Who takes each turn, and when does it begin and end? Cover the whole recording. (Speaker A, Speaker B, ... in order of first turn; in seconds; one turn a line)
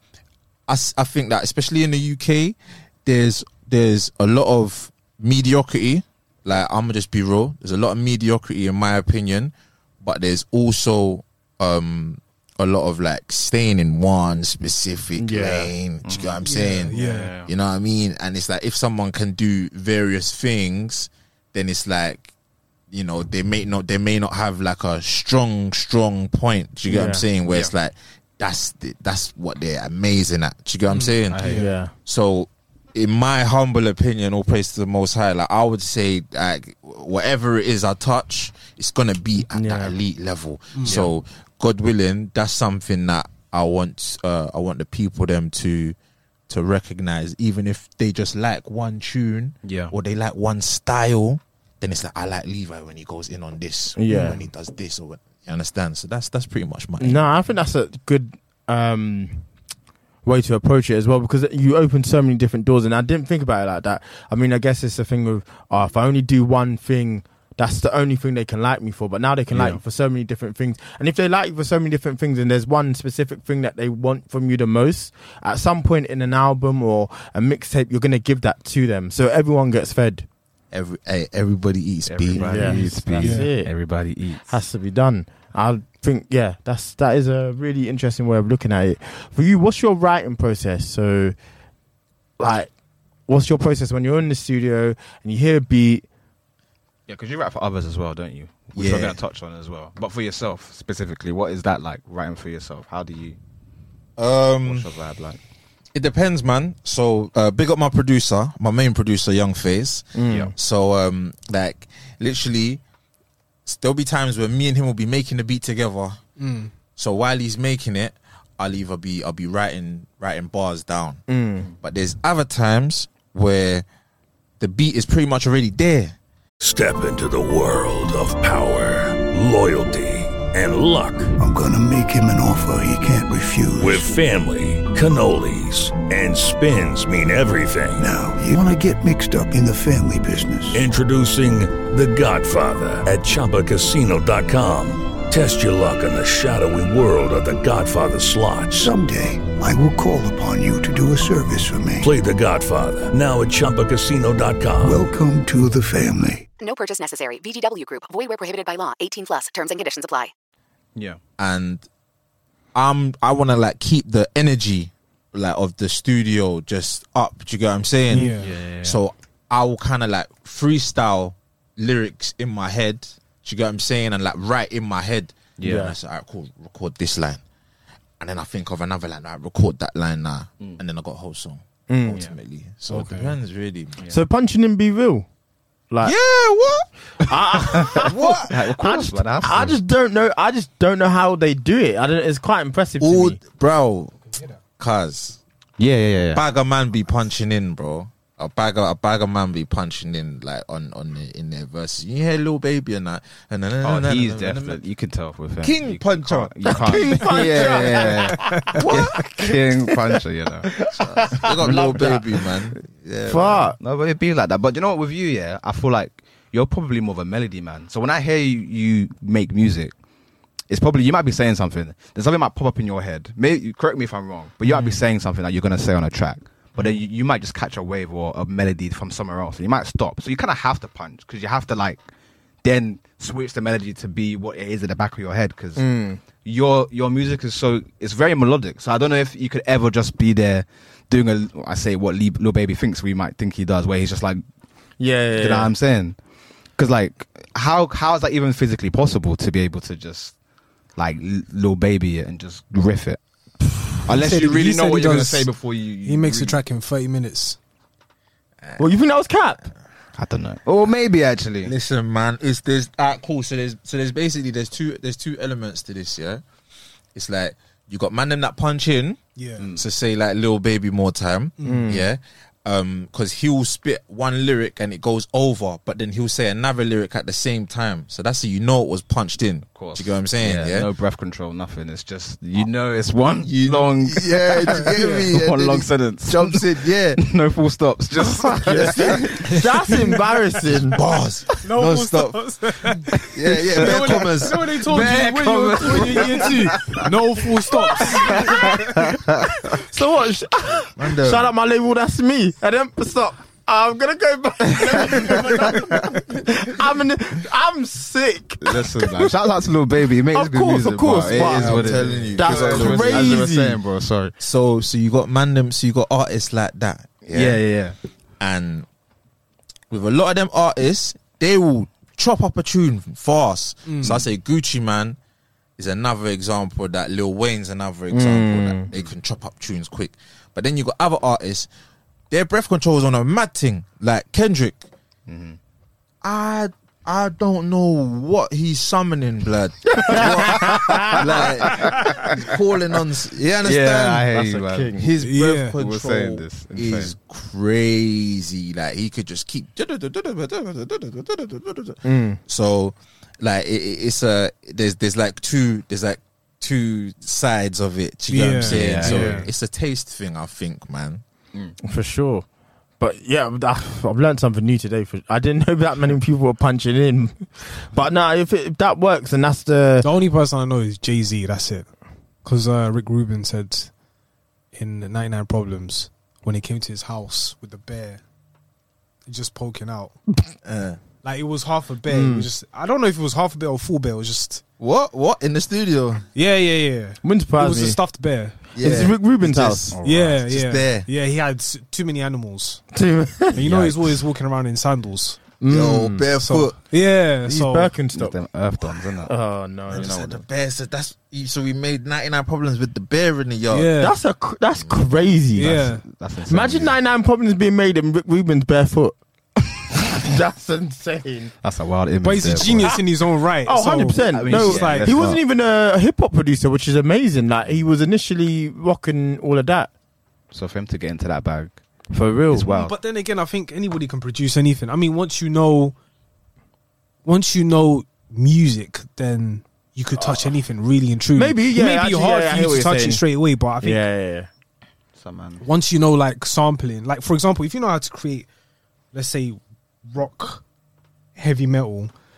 Speaker A: 0.7-22.3
Speaker B: 15.2-15.7
Speaker C: 16.0-16.4
Speaker D: 16.4-17.4
Speaker C: 16.9-17.5
Speaker A: 22.9-46.0
Speaker B: 26.9-27.2
Speaker C: 27.5-27.7
Speaker D: 30.9-31.7
Speaker C: 31.3-31.7
Speaker B: 31.5-31.9
Speaker B: 39.5-40.0
Speaker D: 40.7-41.0
Speaker C: 40.9-41.1
Speaker A: 46.5-57.2
Speaker C: 49.6-49.9
Speaker B: 54.0-54.5
Speaker B: 57.0-59.5
Speaker B: 60.2-80.3
Speaker C: 69.5-69.8
Speaker A: 80.7-82.9
Speaker C: 82.1-84.5
Speaker B: 82.3-83.7
Speaker D: 82.6-83.5
Speaker B: 84.5-91.4
Speaker B: 92.4-92.7
Speaker B: 93.3-96.0
Speaker C: 97.1-103.4
Speaker A: 98.8-99.2
Speaker A: 104.2-104.9
Speaker C: 104.6-105.4
Speaker A: 105.9-112.8
Speaker B: 110.1-110.5
Speaker C: 110.3-110.5
Speaker A: 113.7-116.2
Speaker D: 116.4-116.7
Speaker A: 117.0-121.2
Speaker B: 121.3-121.7
Speaker A: 121.8-123.9
Speaker A: 124.6-126.2
Speaker E: 126.6-131.3
Speaker F: 131.4-134.1
Speaker E: 133.8-138.1
Speaker F: 138.0-140.8
Speaker E: 140.7-148.9
Speaker F: 148.7-152.1
Speaker E: 152.0-155.1
Speaker F: 154.8-156.5
Speaker G: 156.6-160.3
Speaker C: 160.9-161.2
Speaker A: 161.4-161.9
Speaker A: 162.7-177.4
Speaker D: 168.1-168.5
Speaker C: 168.4-169.0
Speaker C: 175.6-175.9
Speaker B: 175.6-176.0
Speaker A: 178.2-184.0
Speaker B: 181.9-182.2
Speaker D: 182.9-183.3
Speaker B: 184.1-185.3
Speaker B: 185.9-186.2
Speaker A: 186.0-186.9
Speaker B: 187.3-193.4
Speaker A: 187.8-188.6
Speaker C: 187.8-189.8
Speaker A: 193.0-194.2
Speaker A: 194.8-195.4
Speaker C: 195.8-196.4
Speaker A: 196.3-204.8
Speaker C: 203.8-210.8
Speaker A: 205.6-208.1
Speaker B: 206.7-209.8
Speaker A: 208.8-209.6
Speaker A: 210.8-213.7
Speaker B: 210.9-212.4
Speaker C: 211.7-212.1
Speaker B: 213.3-213.8
Speaker C: 213.8-219.9
Speaker C: 220.7-232.0
Speaker D: 224.7-225.0
Speaker C: 232.6-235.9
Speaker B: 235.8-236.2
Speaker C: 236.4-244.4
Speaker B: 245.0-245.7
Speaker C: 245.4-246.2
Speaker C: 246.8-250.3
Speaker C: 251.0-253.2
Speaker C: 254.0-256.6
Speaker D: 254.1-255.5
Speaker D: 256.0-257.6
Speaker B: 258.8-259.7
Speaker C: 260.2-261.7
Speaker A: 261.6-266.4
Speaker A: 267.1-269.2
Speaker D: 269.4-269.7
Speaker C: 269.6-269.8
Speaker A: 269.8-280.9
Speaker D: 271.6-271.9
Speaker B: 271.6-272.1
Speaker C: 279.7-290.0
Speaker A: 283.4-287.2
Speaker D: 284.8-285.2
Speaker B: 288.6-291.0
Speaker A: 288.7-289.2
Speaker A: 290.9-292.4
Speaker D: 291.6-298.8
Speaker A: 293.2-294.8
Speaker C: 293.5-297.1
Speaker C: 297.9-299.5
Speaker B: 298.0-299.0
Speaker B: 299.7-309.3
Speaker A: 301.0-301.5
Speaker C: 304.9-305.9
Speaker C: 308.6-314.3
Speaker B: 310.3-313.8
Speaker A: 311.3-313.5
Speaker A: 314.4-317.6
Speaker C: 317.3-318.0
Speaker A: 318.4-318.9
Speaker A: 319.9-325.2
Speaker D: 323.9-324.3
Speaker A: 325.8-331.7
Speaker B: 328.1-328.9
Speaker A: 332.3-334.9
Speaker C: 335.3-335.6
Speaker A: 336.2-344.3
Speaker B: 340.0-341.2
Speaker C: 341.2-341.9
Speaker C: 343.6-344.9
Speaker B: 344.3-345.1
Speaker A: 344.9-361.2
Speaker D: 345.2-345.8
Speaker C: 345.8-347.1
Speaker B: 352.0-352.4
Speaker D: 358.3-359.5
Speaker C: 358.6-359.5
Speaker B: 361.8-362.5
Speaker B: 363.0-370.1
Speaker D: 370.0-371.9
Speaker D: 372.4-373.9
Speaker D: 374.7-378.2
Speaker D: 379.3-380.2
Speaker A: 380.6-381.0
Speaker D: 381.2-384.6
Speaker B: 382.1-382.5
Speaker A: 384.8-386.2
Speaker D: 386.4-388.7
Speaker B: 387.2-388.0
Speaker A: 388.8-389.9
Speaker B: 388.8-390.0
Speaker C: 389.9-390.4
Speaker D: 390.0-392.8
Speaker A: 390.4-391.1
Speaker B: 392.9-393.6
Speaker D: 393.5-395.6
Speaker C: 393.6-394.2
Speaker B: 395.6-396.3
Speaker A: 395.6-396.8
Speaker D: 396.3-397.9
Speaker B: 397.5-398.4
Speaker C: 398.1-399.3
Speaker B: 399.2-400.4
Speaker A: 399.9-403.9
Speaker C: 399.9-400.2
Speaker D: 403.7-404.2
Speaker B: 404.0-405.8
Speaker D: 405.6-406.0
Speaker C: 405.6-407.0
Speaker B: 406.5-409.2
Speaker B: 410.1-411.5
Speaker C: 411.6-413.0
Speaker D: 412.2-415.2
Speaker B: 413.6-419.9
Speaker C: 414.3-415.4
Speaker C: 420.5-423.0
Speaker B: 422.1-422.7
Speaker D: 422.7-426.0
Speaker D: 427.2-434.0
Speaker B: 430.2-430.5
Speaker B: 431.4-433.2
Speaker B: 433.8-434.5
Speaker C: 435.2-435.6
Speaker D: 435.6-438.5
Speaker D: 439.1-440.6
Speaker D: 441.4-442.1